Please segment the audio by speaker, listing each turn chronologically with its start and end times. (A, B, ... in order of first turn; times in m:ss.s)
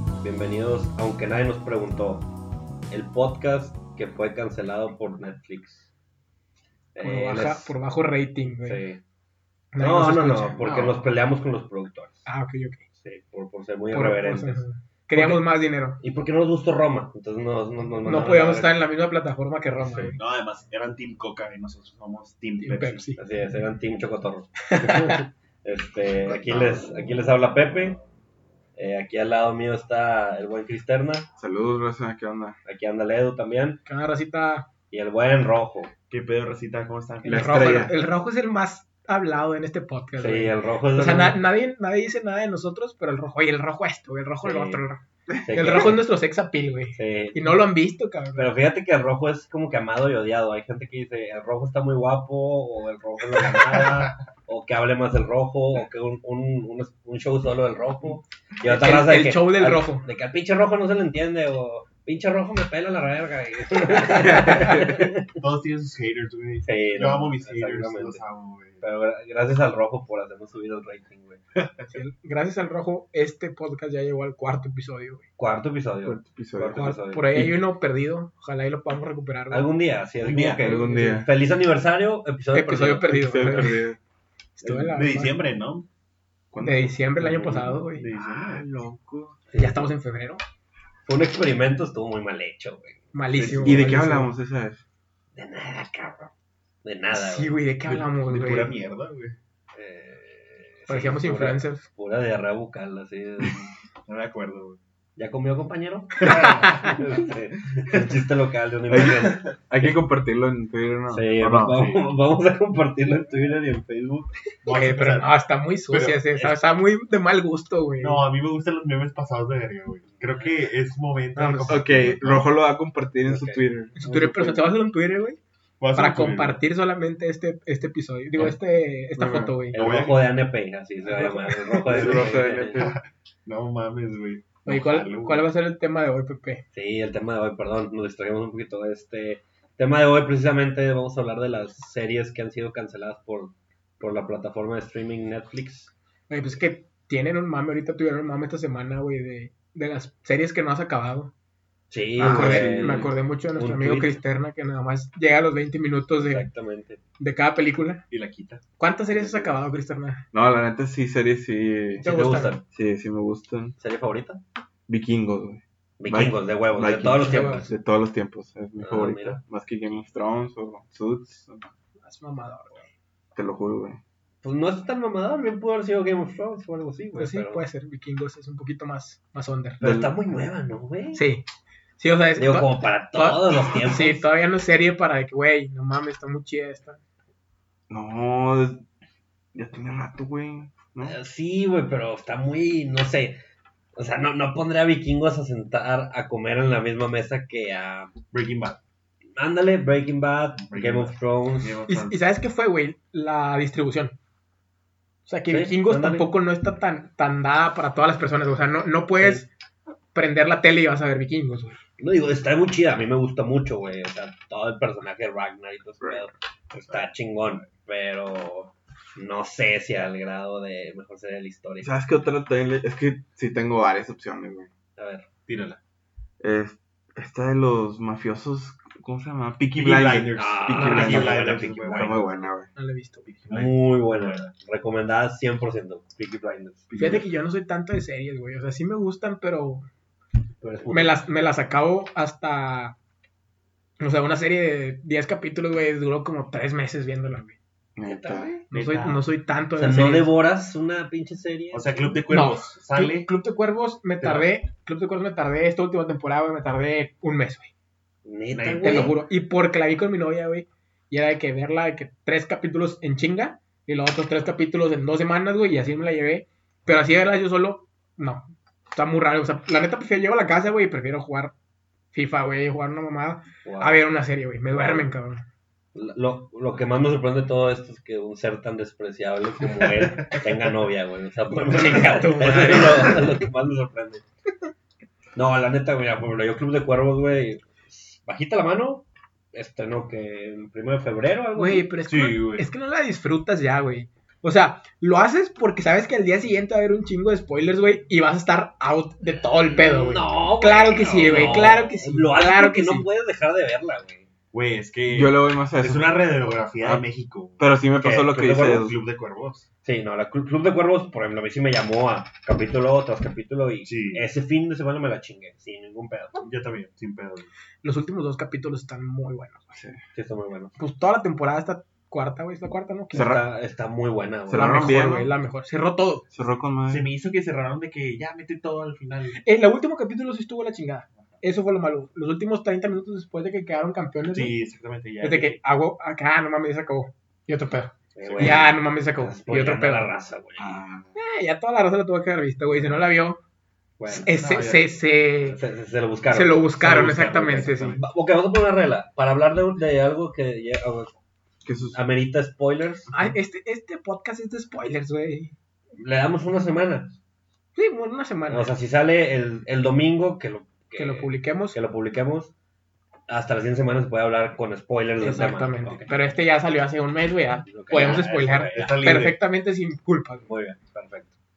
0:00.2-0:02.3 A
0:02.9-0:05.9 A
0:06.9-0:07.7 A
0:07.0-0:08.8 B
0:08.6-0:09.0 A
0:09.7-0:10.7 B
0:09.8-0:12.3 A
0:10.6-0:10.9 C
0:12.2-0:12.8 B
0:13.0-0:15.4 A
0:13.9-0:16.0 B
0:16.0-0:18.8 A
0:18.0-0:20.2 B
0:20.2-0:23.1 C
0:22.6-0:23.2 B
0:23.2-0:28.0 A
0:24.6-0:25.2 B
0:26.2-0:26.9 C
0:28.8-0:31.3 A
0:31.4-0:32.6 D
0:32.6-0:33.8 A
0:33.9-0:34.7 B
0:34.9-0:35.9 A
0:36.1-0:37.8 C
0:37.2-0:48.5 B
0:37.3-0:37.9 D
0:40.2-0:41.4 A
0:44.4-0:44.8 A
0:45.4-0:46.0 A
0:47.0-0:47.6 A
0:48.4-1:05.3 A
0:53.8-0:54.1 C
0:58.7-1:00.0 B
1:04.2-1:05.1 D
1:05.3-1:08.8 C
1:06.6-1:08.2 A
1:08.8-1:11.4 A
1:11.9-1:15.2 B
1:15.4-1:17.5 A
1:16.0-1:17.6 D
1:17.0-1:19.7 B
1:19.5-1:23.7 A
1:20.2-1:20.9 C
1:20.6-1:21.3 D
1:22.5-1:23.8 B
1:23.1-1:24.0 D
1:24.6-1:25.4 B
1:24.6-1:25.9 C
1:26.5-1:26.9 D
1:26.6-1:28.1 B
1:27.2-1:28.6 C
1:28.1-1:29.4 D
1:29.5-1:29.9 A
1:29.5-1:30.4 B
1:31.1-1:34.1 A
1:33.1-1:34.3 B
1:33.5-1:34.8 D
1:35.4-1:36.3 A
1:36.8-1:37.6 A
1:37.1-1:38.7 B
1:37.9-1:39.4 C
1:39.7-1:43.7 A
1:40.9-1:41.8 B
1:44.1-1:44.8 C
1:45.2-1:49.9 A
1:46.2-1:46.9 C
1:46.3-1:46.8 B
1:48.9-1:51.8 D
1:51.1-1:54.3 A
1:51.7-1:52.0 C
1:54.6-1:55.3 C
1:54.7-1:58.2 B
1:55.9-1:56.2 C
1:58.0-2:02.5 C
2:00.1-2:00.6 A
2:01.4-2:01.8 B
2:01.7-2:04.7 D
2:03.3-2:03.7 A
2:04.0-2:05.4 B
2:05.8-2:06.6 C
2:06.0-2:09.8 B
2:09.2-2:09.6 D
2:09.7-2:10.4 C
2:09.7-2:12.9 A
2:11.1-2:11.8 B
2:11.2-2:15.5 C
2:11.9-2:13.0 D
2:14.7-2:16.6 B
2:16.7-2:25.9 A
2:26.3-2:31.3 B
2:31.9-2:34.2 A
2:32.2-2:33.1 D
2:32.2-2:36.5 B
2:36.2-2:37.0 A
2:37.2-2:38.0 B
2:38.1-2:38.6 C
2:38.8-2:40.2 B
2:39.1-2:39.6 A
2:40.3-2:42.1 D
2:42.0-2:42.6 A
2:42.0-2:42.6 B
2:42.7-2:43.8 D
2:43.8-2:44.4 A
2:44.9-2:51.7 D
2:46.0-2:47.7 A
2:47.2-2:47.7 B
2:48.8-2:49.4 A
2:52.0-2:52.9 B
2:53.4-2:54.0 D
2:54.4-2:57.6 A
2:57.1-2:59.8 B
2:59.8-3:01.2 A
2:59.8-3:00.2 D
3:01.1-3:01.4 B
3:02.0-3:07.0 B
3:02.4-3:04.3 A
3:07.9-3:08.8 D
3:09.5-3:11.2 D
3:11.0-3:13.4 A
3:14.0-3:18.1 A
3:18.3-3:18.8 C
3:19.4-3:21.8 A
3:20.7-3:22.2 C
3:21.9-3:24.2 B
3:25.3-3:29.5 B
3:25.5-3:26.3 A
3:29.2-3:29.4 A
3:30.1-3:31.8 B
3:32.0-3:41.9 A
3:41.8-3:44.7 D
3:45.0-3:45.3 A
3:45.5-3:45.8 C
3:46.4-3:52.7 D
3:49.8-3:52.4 C
3:50.4-3:52.3 A
3:52.8-3:53.2 B
3:53.2-3:54.5 C
3:53.5-3:56.9 A
3:56.9-3:57.3 C
3:57.0-3:59.9 B
4:00.6-4:01.2 A
4:00.9-4:03.0 B
4:04.0-4:07.6 B
4:08.0-4:08.5 D
4:08.0-4:08.7 A
4:08.7-4:09.2 C
4:08.7-4:10.3 B
4:09.8-4:12.2 A
4:11.7-4:13.3 C
4:12.3-4:17.7 B
4:14.2-4:14.5 C
4:18.2-4:19.2 A
4:18.6-4:19.2 C
4:18.8-4:31.5 B
4:32.1-4:35.4 B
4:33.6-4:34.0 A
4:34.7-4:35.1 A
4:36.0-4:44.2 A
4:39.6-4:40.5 C
4:41.5-4:43.4 B
4:45.4-4:51.9 A
4:51.6-5:03.1 B
4:52.1-4:52.7 C
4:59.7-5:04.3 A
5:01.3-5:01.6 C
5:04.5-5:09.7 C
5:05.1-5:06.3 D
5:06.8-5:07.0 D
5:07.6-5:09.0 D
5:08.0-5:08.8 A
5:09.8-5:16.4 A
5:13.8-5:14.2 C
5:16.4-5:17.5 C
5:17.8-5:19.7 B
5:19.7-5:20.0 D
5:20.1-5:20.8 A
5:20.8-5:23.3 B
5:23.1-5:25.0 A
5:23.1-5:23.4 D
5:24.5-5:25.3 D
5:24.5-5:26.3 B
5:26.3-5:27.1 D
5:26.9-5:29.4 C
5:29.4-5:34.6 B
5:34.3-5:35.6 C
5:35.2-5:40.1 B
5:38.2-5:40.8 A
5:38.2-5:38.7 C
5:40.6-5:41.1 D
5:41.2-5:43.4 B
5:44.0-5:44.3 A
5:44.1-5:45.6 B
5:44.3-5:45.0 C
5:45.4-5:51.1 A
5:46.3-5:48.0 B
5:46.8-5:48.0 C
5:51.6-5:52.0 D
5:51.9-5:53.1 A
5:53.1-5:55.5 B
5:56.0-5:57.2 A
5:57.8-5:58.7 B
5:58.5-6:02.5 A
6:01.0-6:01.8 B
6:03.3-6:06.3 A
6:05.2-6:10.5 B
6:07.7-6:09.0 A
6:07.9-6:09.4 C
6:10.5-6:11.3 A